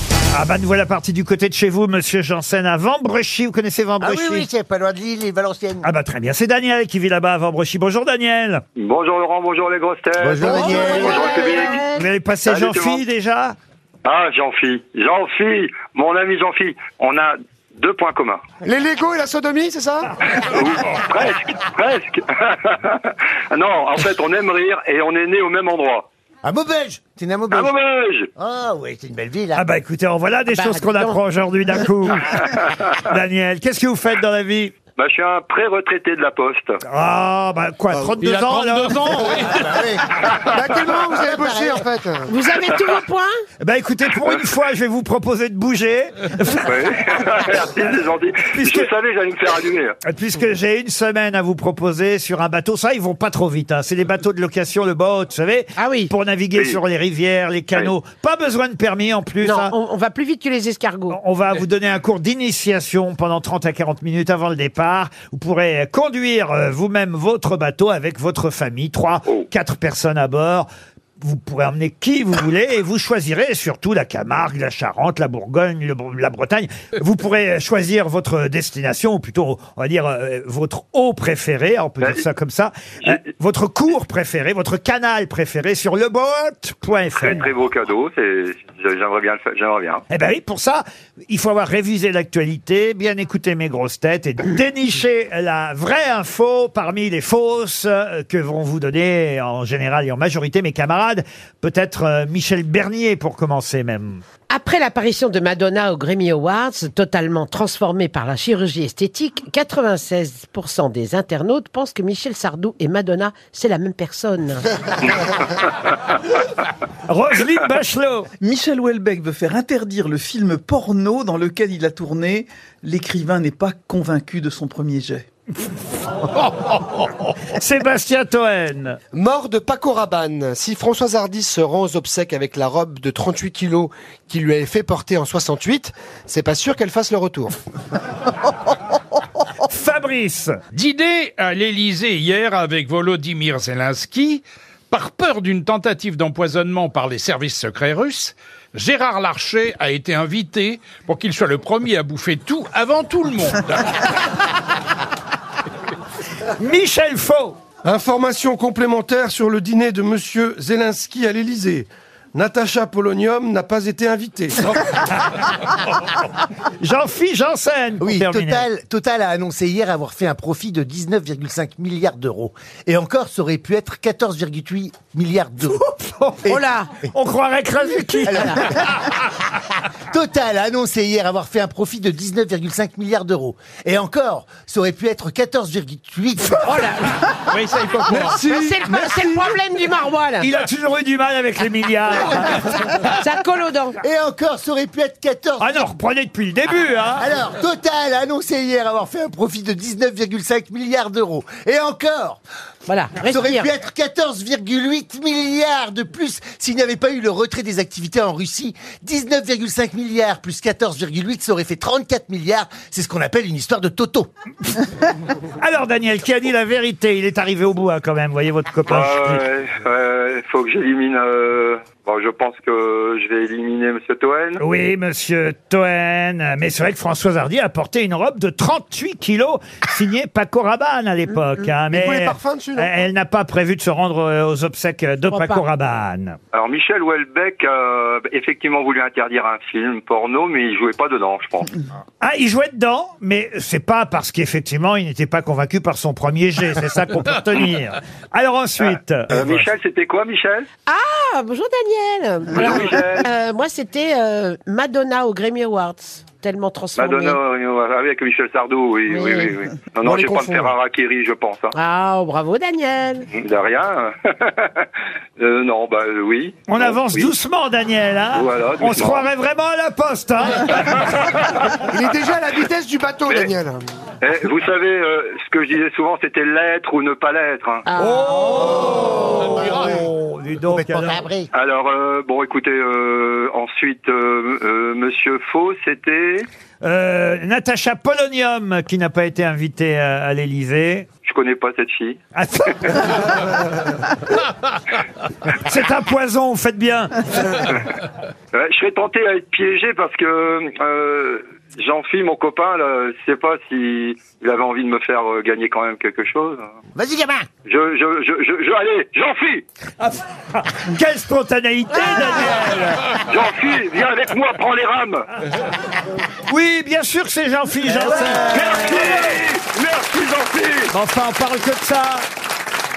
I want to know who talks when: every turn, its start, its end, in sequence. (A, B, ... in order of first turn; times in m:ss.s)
0:00.3-0:04.5 A
0:04.0-0:05.8 B
0:05.8-0:08.6 A
0:08.8-0:11.8 C
0:10.2-0:11.3 B
0:10.4-0:11.4 D
0:10.6-0:12.0 E
0:11.8-0:13.6 A
0:12.5-0:13.0 C
0:14.0-0:18.4 C
0:18.6-0:20.1 D
0:20.4-0:26.1 C
0:26.4-0:27.7 B
0:27.5-0:28.3 C
0:28.4-0:29.6 B
0:29.6-0:32.4 A
0:30.5-0:31.2 E
0:33.0-0:34.8 A
0:35.0-0:36.8 C
0:36.9-0:39.4 A
0:38.2-0:39.7 F
0:39.4-0:40.0 B
0:40.5-0:42.3 D
0:41.0-0:41.8 B
0:42.3-0:43.4 E
0:43.6-0:46.7 A
0:46.6-0:50.0 C
0:48.5-0:48.9 A
0:50.1-0:59.7 A
0:55.8-0:56.1 E
0:56.6-0:56.8 C
0:59.4-1:01.2 E
1:01.1-1:10.7 A
1:11.2-1:27.4 A
1:22.0-1:22.2 C
1:27.1-1:30.0 C
1:30.1-1:44.2 A
1:44.5-1:54.6 E
1:57.1-1:58.3 A
1:58.4-2:05.3 G
2:07.4-2:09.0 A
2:09.1-2:17.6 D
2:19.6-2:20.6 A
2:20.7-2:34.0 F
2:36.6-2:37.6 A
2:37.8-2:45.0 H
2:46.8-2:48.6 A
2:48.0-2:55.8 B
2:55.8-2:56.6 A
2:56.5-2:56.9 E
2:57.1-2:58.7 A
2:58.2-2:59.2 B
2:58.3-2:58.6 E
3:00.1-3:06.6 B
3:06.6-3:10.5 E
3:07.6-3:09.5 D
3:10.4-3:12.7 A
3:12.5-3:14.0 E
3:14.0-3:15.9 B
3:15.6-3:17.3 A
3:17.2-3:22.4 B
3:22.9-3:23.7 E
3:23.2-3:34.3 B
3:35.6-3:39.4 A
3:38.9-3:44.6 C
3:44.6-3:56.4 A
3:51.9-3:52.9 D
3:55.3-3:55.6 E
3:56.5-4:01.8 C
4:02.2-4:09.6 A
4:08.8-4:10.7 C
4:10.9-4:17.4 E
4:12.6-4:13.2 C
4:17.0-4:21.7 C
4:19.1-4:19.5 E
4:20.0-4:20.8 D
4:21.7-4:23.3 E
4:23.4-4:27.3 C
4:26.7-4:31.1 A
4:28.3-4:29.3 C
4:31.1-4:31.4 C
4:31.9-4:33.8 D
4:33.2-4:33.6 C
4:34.2-4:37.8 C
4:37.9-4:39.1 E
4:38.0-4:41.3 A
4:40.7-4:41.5 B
4:41.5-4:46.5 C
4:46.8-4:51.1 A
4:51.3-4:52.2 C
4:52.4-4:54.0 A
4:55.5-4:57.6 A
4:58.5-5:06.6 C
5:07.0-5:07.5 B
5:07.7-5:09.6 C
5:10.0-5:13.2 A
5:12.1-5:12.5 E
5:13.2-5:15.2 C
5:16.5-5:19.4 A
5:17.9-5:19.2 B
5:18.2-5:20.9 C
5:20.9-5:22.3 A